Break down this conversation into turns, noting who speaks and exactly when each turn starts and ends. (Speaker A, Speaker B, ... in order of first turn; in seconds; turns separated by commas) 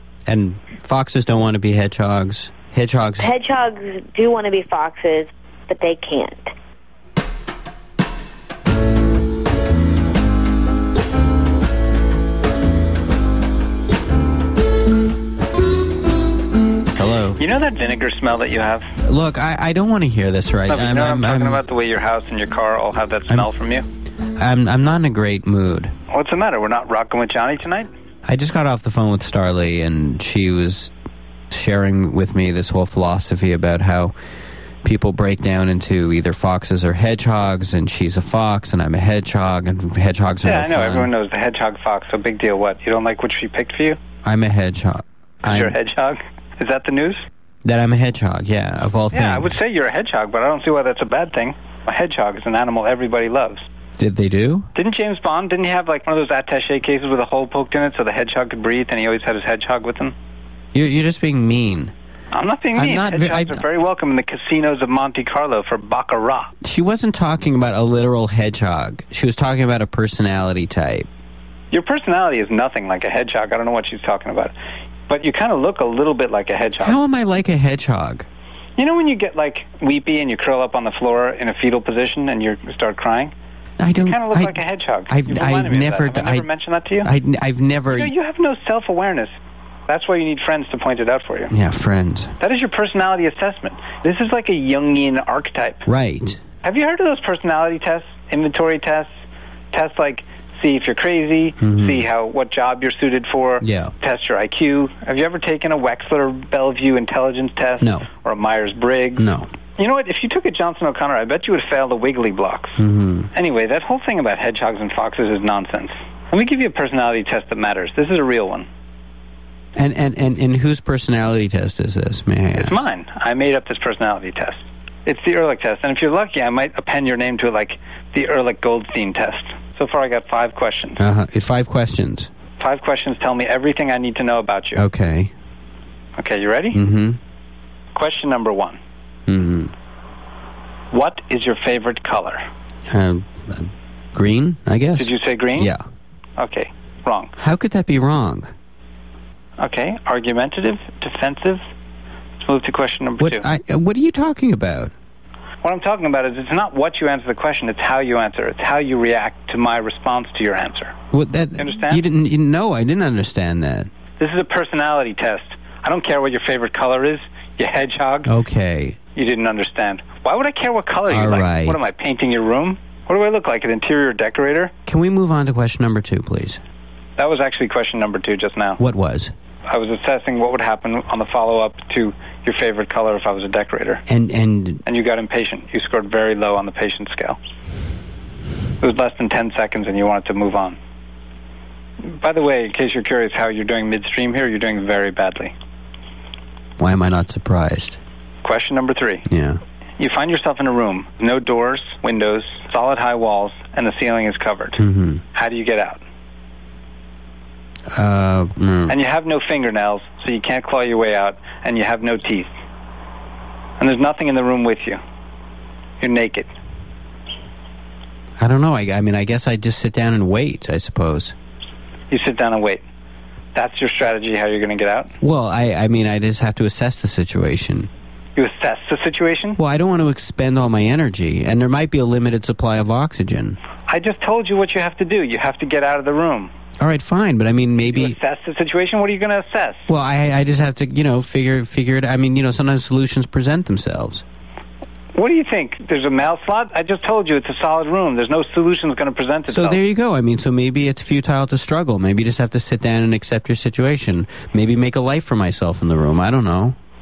Speaker A: 0.2-3.3, Speaker B: 3.2-6.5, Speaker A: 16.9-17.4, Speaker C: 17.4-18.9, Speaker A: 19.0-21.6, Speaker C: 20.7-23.8, Speaker A: 24.4-25.9, Speaker C: 26.1-27.9, Speaker A: 28.2-30.9, Speaker A: 31.5-34.1, Speaker A: 34.8-41.1, Speaker C: 40.4-44.0, Speaker A: 44.2-45.8, Speaker C: 45.4-47.2, Speaker A: 47.6-49.6, Speaker C: 49.1-53.6, Speaker A: 54.0-54.7, Speaker C: 54.7-60.1, Speaker A: 60.7-61.9, Speaker C: 62.3-66.5, Speaker A: 62.7-63.6, Speaker A: 66.6-71.1, Speaker C: 71.7-74.5, Speaker C: 75.1-77.0, Speaker A: 76.8-78.3, Speaker C: 78.8-83.3, Speaker A: 83.8-84.6, Speaker C: 84.0-87.1, Speaker A: 85.1-86.5, Speaker A: 87.0-88.1, Speaker C: 87.9-89.3, Speaker C: 89.9-91.5, Speaker A: 91.5-92.3, Speaker C: 92.4-95.8, Speaker A: 95.8-96.4, Speaker C: 96.6-99.1, Speaker C: 99.7-109.2, Speaker A: 101.6-102.0, Speaker A: 103.6-103.9, Speaker A: 107.8-108.1, Speaker A: 109.2-109.5, Speaker C: 109.8-112.7, Speaker A: 112.8-113.3, Speaker C: 113.3-118.7, Speaker A: 119.8-122.8, Speaker C: 122.5-131.0, Speaker A: 131.0-132.3, Speaker C: 132.6-134.8, Speaker A: 134.7-135.3, Speaker C: 136.2-136.8, Speaker A: 136.7-137.2, Speaker C: 137.9-138.8, Speaker A: 139.3-139.7, Speaker C: 140.9-142.4, Speaker A: 142.9-145.8, Speaker C: 145.0-145.7, Speaker C: 146.4-147.3, Speaker A: 147.4-148.5, Speaker C: 149.6-151.6, Speaker C: 152.4-153.4, Speaker A: 153.2-154.9, Speaker C: 155.6-161.0, Speaker A: 161.1-163.9, Speaker C: 161.6-162.0, Speaker C: 164.2-168.3, Speaker A: 168.2-169.0, Speaker C: 169.1-174.7, Speaker A: 171.1-171.8, Speaker A: 174.9-176.6, Speaker C: 177.2-178.8, Speaker A: 178.8-179.3, Speaker C: 179.7-184.0, Speaker A: 184.1-184.8, Speaker C: 184.8-187.4, Speaker C: 188.8-190.8, Speaker C: 192.1-195.5, Speaker A: 196.8-198.0, Speaker C: 198.4-199.2, Speaker A: 199.3-199.6, Speaker C: 200.0-204.8, Speaker A: 204.8-205.2, Speaker C: 205.3-206.0, Speaker A: 207.9-208.9, Speaker C: 208.9-212.5, Speaker C: 213.8-215.0, Speaker C: 216.0-216.5, Speaker A: 218.4-221.3, Speaker C: 222.1-222.8, Speaker C: 223.5-225.1, Speaker A: 225.2-227.9, Speaker C: 228.3-229.6, Speaker A: 229.6-233.6, Speaker C: 233.9-236.5, Speaker A: 236.8-238.2, Speaker C: 237.9-239.9, Speaker A: 239.9-244.2, Speaker C: 245.1-249.8, Speaker A: 249.5-256.8